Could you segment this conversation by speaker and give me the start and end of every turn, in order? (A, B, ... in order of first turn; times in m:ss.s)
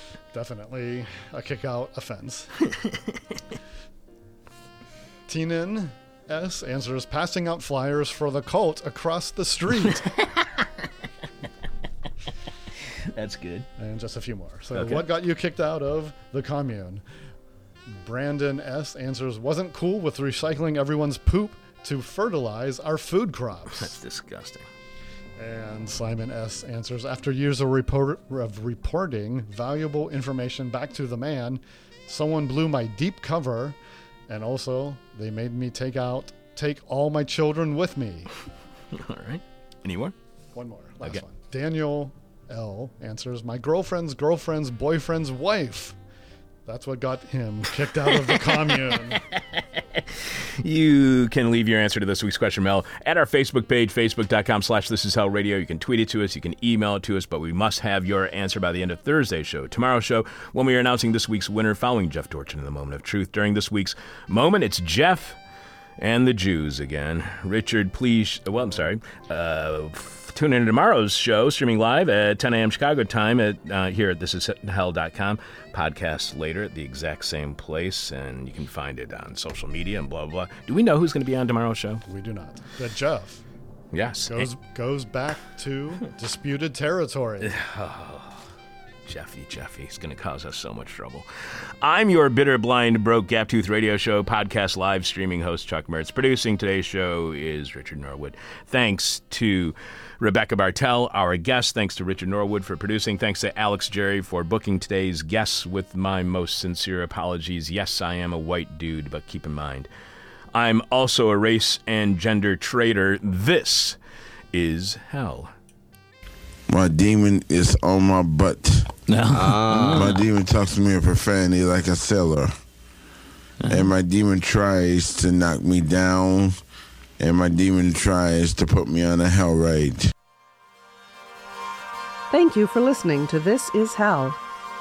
0:00.3-0:02.6 A
0:05.3-0:10.1 A
0:10.1-0:10.7 B
0:13.1-0:13.7 B
0:13.8-0:17.0 A
0:14.7-0:15.0 B
0:18.0-0:24.0 A
0:23.7-0:24.7 B
0:25.4-0:38.3 A
0:38.9-0:40.1 B
0:40.6-0:46.0 A
0:46.7-0:49.2 A
0:49.1-1:05.4 B
1:06.0-1:22.0 B
1:22.1-1:23.4 A
1:23.9-1:24.5 B
1:24.3-1:27.6 A
1:27.4-1:28.4 B
1:29.1-1:49.9 B
1:50.5-1:54.0 B
1:54.5-1:55.5 B
1:56.7-2:02.5 C
1:59.1-2:00.2 B
2:03.7-2:06.6 C
2:07.2-2:10.1 C
2:12.3-2:14.4 D